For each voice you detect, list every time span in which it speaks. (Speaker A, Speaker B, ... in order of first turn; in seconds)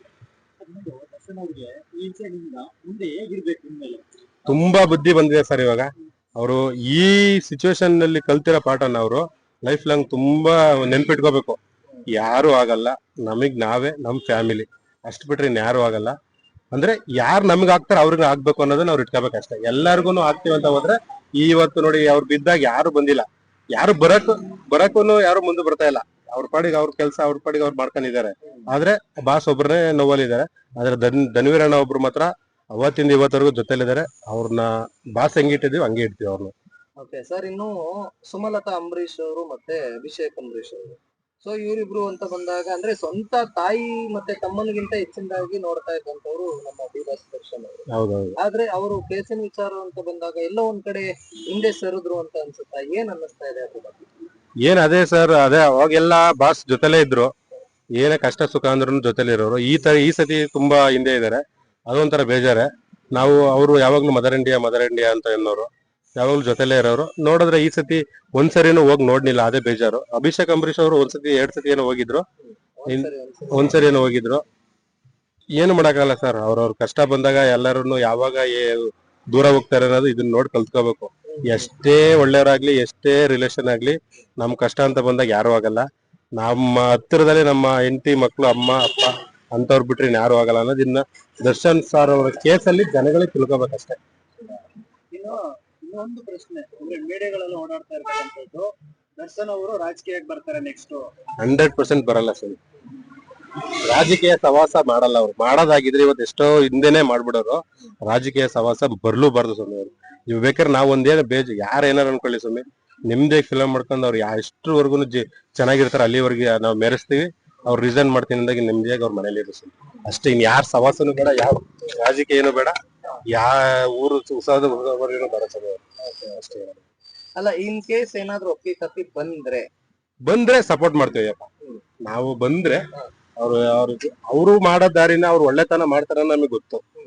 Speaker A: 0.6-4.6, 95.1-101.1
Speaker B: 4.5-16.2, 16.7-36.5, 47.9-48.4, 54.6-57.3, 58.0-72.2, 72.9-74.4, 75.6-94.0, 101.4-102.6, 103.8-122.8, 123.3-126.9, 130.2-131.5, 132.0-136.8
Speaker C: 37.0-47.9, 48.4-54.0, 72.8-73.7, 127.4-129.7